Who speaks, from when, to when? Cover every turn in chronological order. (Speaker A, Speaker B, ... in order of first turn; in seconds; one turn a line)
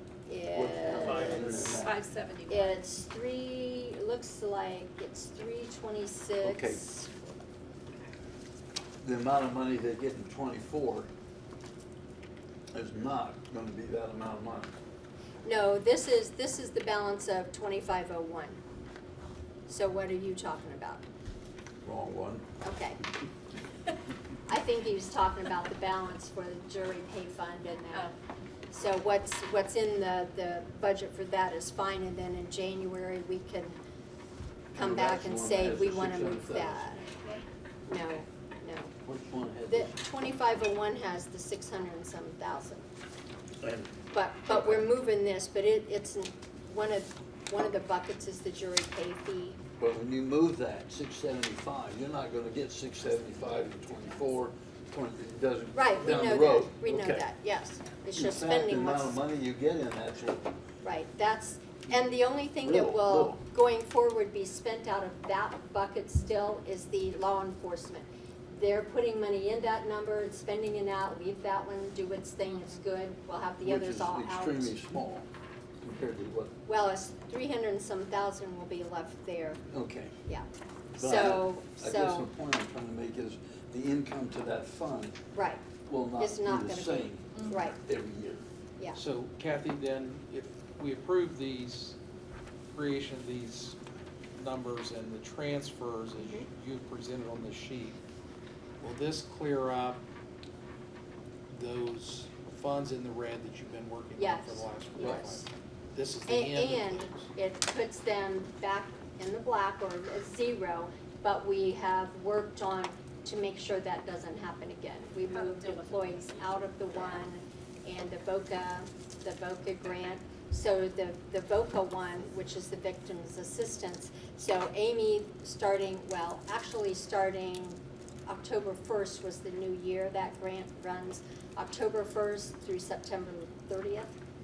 Speaker A: 0.3-1.8
Speaker B: 0.5-2.0
Speaker C: 1.7-2.8
Speaker A: 2.5-7.1
Speaker B: 6.4-6.8
Speaker B: 9.0-11.1
Speaker B: 12.7-14.8
Speaker A: 15.4-18.6
Speaker A: 19.7-21.0
Speaker B: 21.8-22.5
Speaker A: 22.6-23.0
Speaker A: 24.5-28.1
Speaker A: 28.7-33.8
Speaker B: 34.8-37.0
Speaker A: 34.8-37.2
Speaker A: 37.9-38.9
Speaker B: 39.0-39.9
Speaker A: 39.7-42.9
Speaker B: 43.6-44.0
Speaker A: 44.1-49.6
Speaker B: 44.5-44.9
Speaker B: 49.8-57.3
Speaker A: 55.7-59.2
Speaker B: 58.1-60.6
Speaker A: 60.8-74.8
Speaker B: 62.6-63.4
Speaker B: 73.6-75.3
Speaker B: 75.8-76.5
Speaker A: 76.7-79.6
Speaker B: 79.7-80.2
Speaker A: 80.3-82.3
Speaker B: 81.0-85.2
Speaker A: 85.3-85.6
Speaker B: 85.9-88.4
Speaker A: 86.2-87.8
Speaker C: 87.3-87.7
Speaker D: 88.9-92.0
Speaker D: 92.7-93.8
Speaker D: 94.3-98.0
Speaker D: 98.8-100.0
Speaker D: 101.5-107.3
Speaker A: 104.2-105.5
Speaker A: 106.3-134.1
Speaker C: 115.3-117.2